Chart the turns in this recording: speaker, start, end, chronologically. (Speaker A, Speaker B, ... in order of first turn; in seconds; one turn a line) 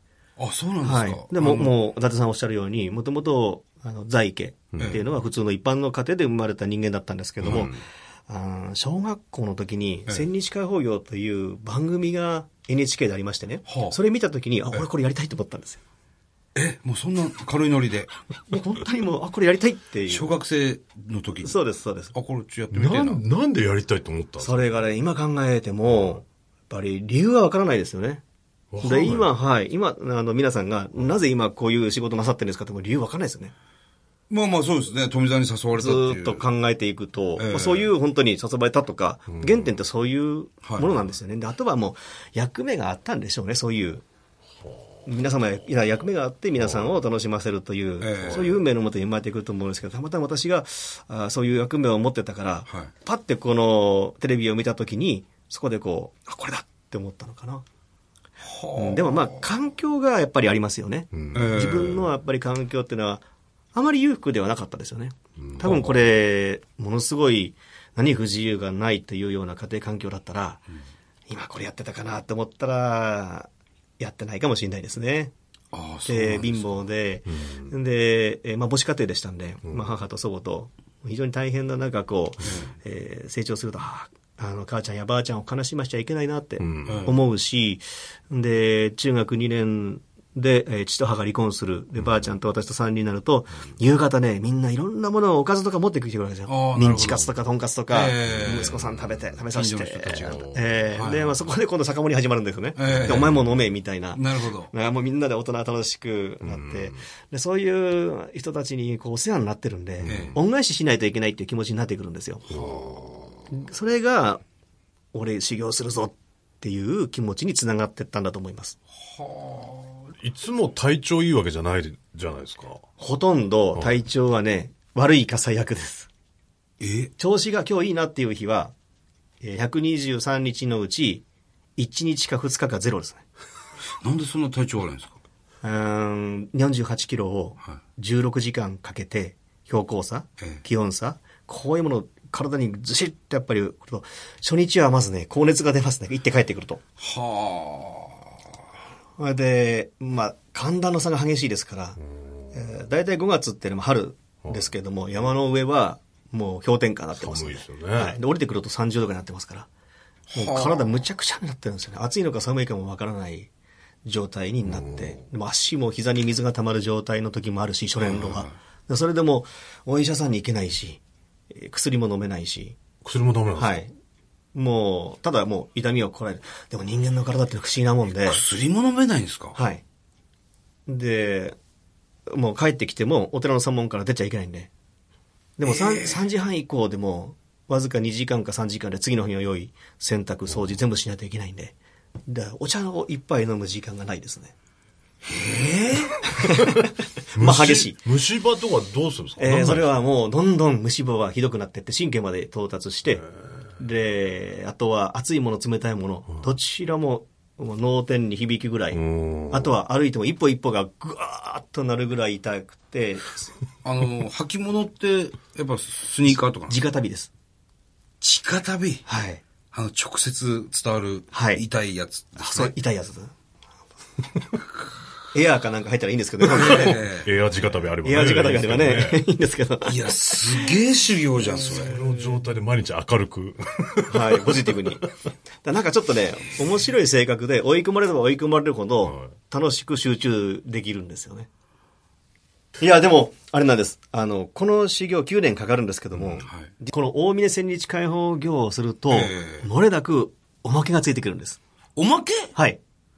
Speaker A: 0.4-1.8
Speaker B: 0.8-7.8
Speaker C: 4.7-5.0
Speaker C: 7.4-7.7
Speaker B: 8.3-15.8
Speaker A: 13.7-14.0
Speaker A: 16.6-18.1
Speaker B: 18.5-20.4
Speaker A: 20.1-21.6
Speaker B: 21.4-22.1
Speaker A: 22.1-23.2
Speaker C: 22.7-24.8
Speaker B: 24.4-28.2
Speaker C: 28.7-29.3
Speaker B: 28.8-33.5
Speaker A: 34.3-36.4
Speaker B: 35.8-44.0
Speaker A: 37.4-37.9
Speaker A: 40.6-40.9
Speaker B: 45.1-57.6
Speaker A: 48.0-48.6
Speaker A: 58.4-59.2
Speaker B: 58.8-70.6
Speaker C: 61.1-61.5
Speaker A: 61.3-62.1
Speaker C: 65.5-65.9
Speaker B: 71.3-73.5
Speaker B: 74.0-75.3
Speaker A: 75.7-76.8
Speaker B: 76.1-112.5
Speaker A: 82.5-82.7
Speaker C: 86.6-87.1
Speaker A: 86.8-87.2
Speaker A: 96.5-97.3
Speaker A: 97.9-98.9
Speaker A: 99.5-101.3
Speaker C: 100.1-100.7
Speaker A: 102.8-103.3
Speaker C: 102.9-103.3
Speaker A: 104.2-104.7
Speaker C: 106.4-107.0
Speaker C: 110.0-110.3
Speaker A: 110.1-110.4
Speaker C: 112.5-113.2
Speaker A: 112.5-113.3
Speaker B: 113.5-114.4
Speaker B: 115.1-118.8
Speaker A: 119.0-120.0
Speaker C: 120.2-122.8
Speaker B: 123.0-126.1
Speaker A: 126.8-127.1
Speaker B: 127.2-128.7
Speaker B: 129.4-131.2
Speaker B: 131.8-133.2
Speaker A: 134.0-135.2
Speaker B: 135.6-146.8
Speaker A: 147.0-148.3
Speaker B: 149.2-152.0
Speaker B: 152.5-159.7
Speaker C: 157.2-158.2
Speaker A: 160.3-160.9
Speaker B: 160.3-163.5
Speaker B: 164.1-171.0
Speaker C: 164.7-165.0
Speaker A: 168.0-168.6
Speaker B: 171.5-172.8
Speaker C: 173.0-173.8
Speaker B: 173.6-173.9
Speaker B: 174.6-178.4
Speaker A: 178.1-179.6
Speaker B: 179.6-179.8
Speaker B: 180.9-181.6
Speaker B: 182.3-184.7
Speaker B: 185.6-191.8
Speaker A: 185.7-186.2
Speaker B: 192.3-194.5
Speaker A: 195.3-196.2
Speaker B: 196.3-198.0
Speaker C: 197.3-199.9
Speaker B: 199.4-203.3
Speaker B: 203.8-213.5
Speaker C: 208.9-209.7
Speaker A: 213.8-216.8
Speaker B: 216.6-217.3
Speaker A: 218.2-219.0
Speaker B: 219.1-219.4
Speaker A: 219.7-222.8
Speaker B: 221.3-221.7
Speaker B: 222.4-223.3
Speaker B: 225.3-227.1
Speaker A: 226.5-227.3
Speaker C: 226.7-229.2
Speaker B: 228.0-230.7
Speaker A: 229.8-232.0
Speaker C: 231.7-234.5
Speaker B: 234.1-235.1
Speaker B: 235.6-241.5
Speaker C: 239.0-239.3
Speaker B: 242.8-251.6
Speaker A: 246.3-246.7
Speaker A: 249.1-249.7
Speaker A: 252.0-252.5